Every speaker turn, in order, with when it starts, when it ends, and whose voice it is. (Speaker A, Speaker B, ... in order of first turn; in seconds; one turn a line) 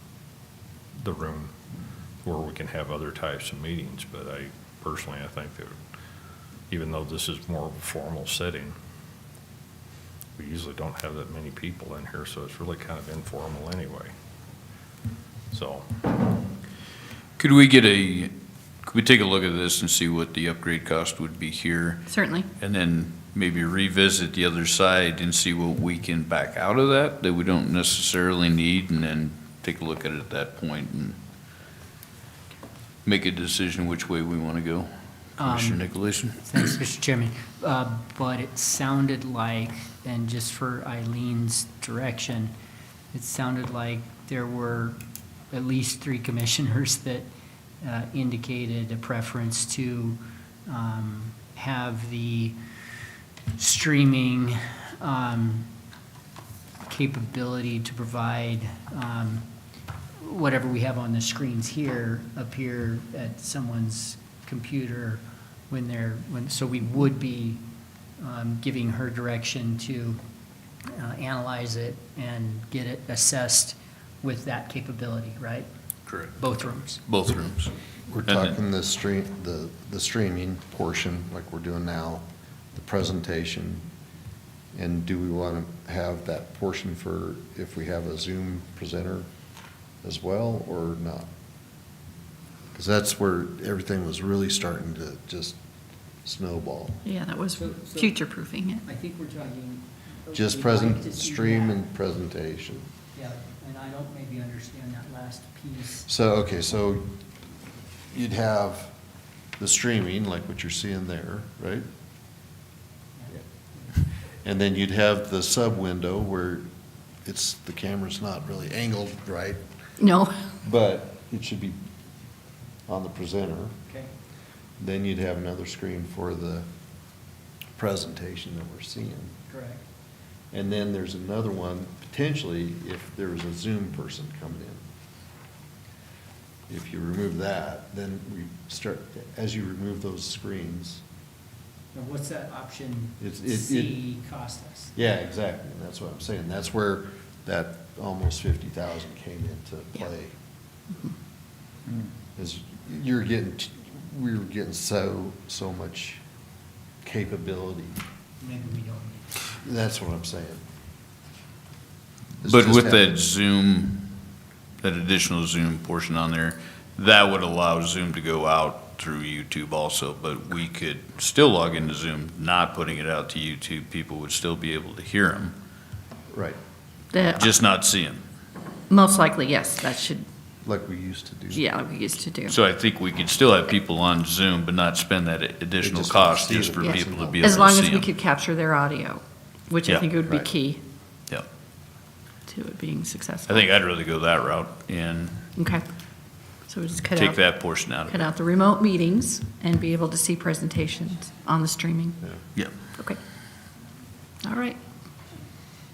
Speaker A: 1.0-1.5
Speaker A: 2.2-5.8
Speaker A: 6.7-8.8
Speaker A: 10.4-14.1
Speaker A: 15.5-15.9
Speaker B: 17.4-18.3
Speaker B: 18.9-31.2
Speaker C: 22.1-22.5
Speaker B: 33.0-36.7
Speaker D: 35.4-35.9
Speaker D: 36.4-42.5
Speaker D: 43.1-47.3
Speaker D: 47.8-52.6
Speaker D: 53.5-55.7
Speaker D: 56.9-59.5
Speaker D: 60.2-67.6
Speaker D: 68.2-70.2
Speaker D: 70.9-75.7
Speaker B: 76.1-76.3
Speaker D: 76.3-77.0
Speaker B: 77.0-77.7
Speaker E: 78.1-83.9
Speaker B: 78.3-78.6
Speaker E: 84.7-89.3
Speaker E: 90.0-91.3
Speaker E: 92.7-95.6
Speaker E: 96.2-97.0
Speaker C: 97.0-98.8
Speaker D: 97.5-98.2
Speaker D: 98.8-101.8
Speaker E: 100.3-102.9
Speaker D: 103.1-106.1
Speaker E: 106.1-107.1
Speaker E: 108.1-108.9
Speaker E: 109.6-111.9
Speaker D: 113.2-114.0
Speaker E: 114.4-116.7
Speaker E: 117.2-119.6
Speaker C: 120.0-120.3
Speaker E: 120.6-121.9
Speaker E: 122.9-123.8
Speaker E: 124.8-126.7
Speaker E: 127.8-129.3
Speaker D: 129.5-129.8
Speaker E: 130.5-134.8
Speaker E: 136.7-141.0
Speaker D: 141.9-144.9
Speaker E: 143.2-144.0
Speaker E: 145.0-150.3
Speaker E: 152.4-156.2
Speaker E: 157.0-158.0
Speaker D: 158.4-159.4
Speaker E: 159.6-160.6
Speaker B: 162.4-164.2
Speaker E: 162.4-163.2
Speaker B: 164.8-175.6
Speaker E: 176.3-176.6
Speaker C: 177.1-177.5
Speaker B: 177.4-178.2
Speaker C: 178.9-180.2
Speaker E: 180.7-181.6
Speaker C: 181.5-182.6
Speaker B: 182.5-188.1
Speaker E: 185.8-187.7
Speaker C: 186.8-190.8
Speaker E: 190.2-190.5
Speaker C: 192.5-193.7
Speaker B: 193.5-195.5
Speaker C: 195.6-195.8
Speaker C: 196.7-202.2
Speaker B: 197.1-198.3
Speaker C: 204.4-204.8